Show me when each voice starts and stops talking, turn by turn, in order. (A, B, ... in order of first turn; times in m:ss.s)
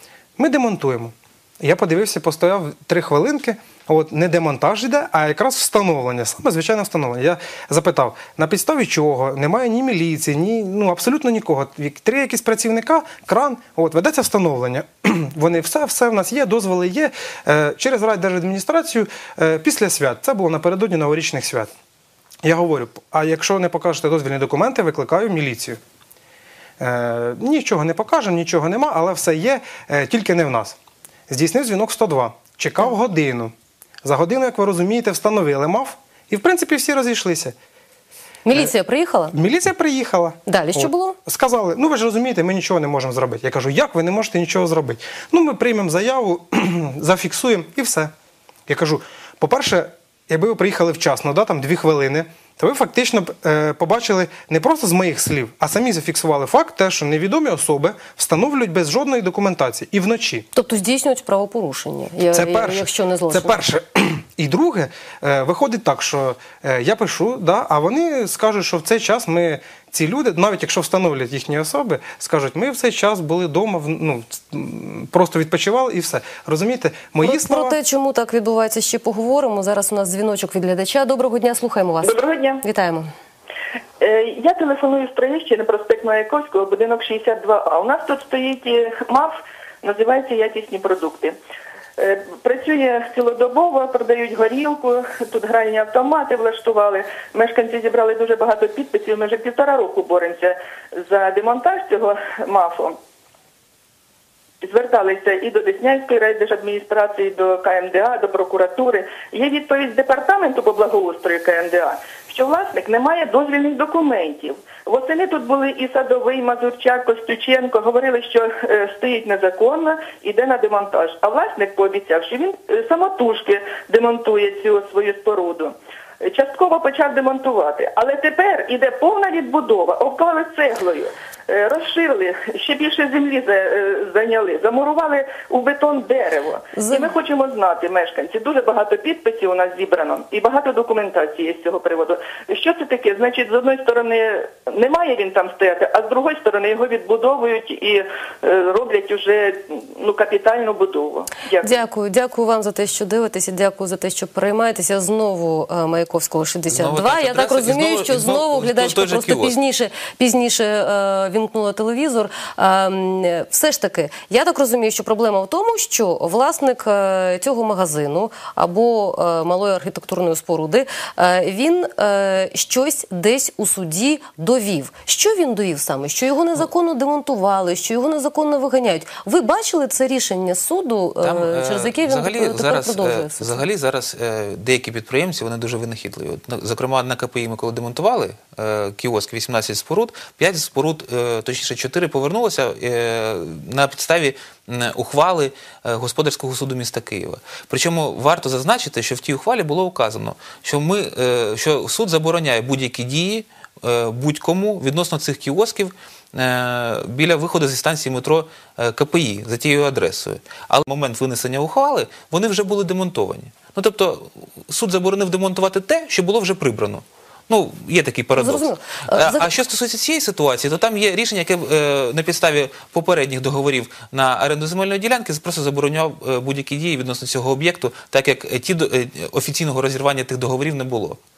0:00.4-0:21.7 A
0:22.4-0:25.8 A
0:26.8-0:30.8 A
0:31.3-0:37.5 A
0:38.4-0:39.4 B
0:39.3-0:48.1 A
0:40.5-0:41.2 B
0:48.7-1:00.4 A
1:00.5-1:03.6 B
1:02.3-1:17.8 A
1:17.2-1:23.1 B
1:22.0-1:22.6 C
1:24.0-1:31.4 C
1:32.0-1:43.0 C
1:44.6-2:31.8 C
2:16.7-2:17.1 B
2:31.6-3:03.6 B
2:36.7-2:39.5 D
3:01.2-3:51.2 D
3:38.4-3:39.5 B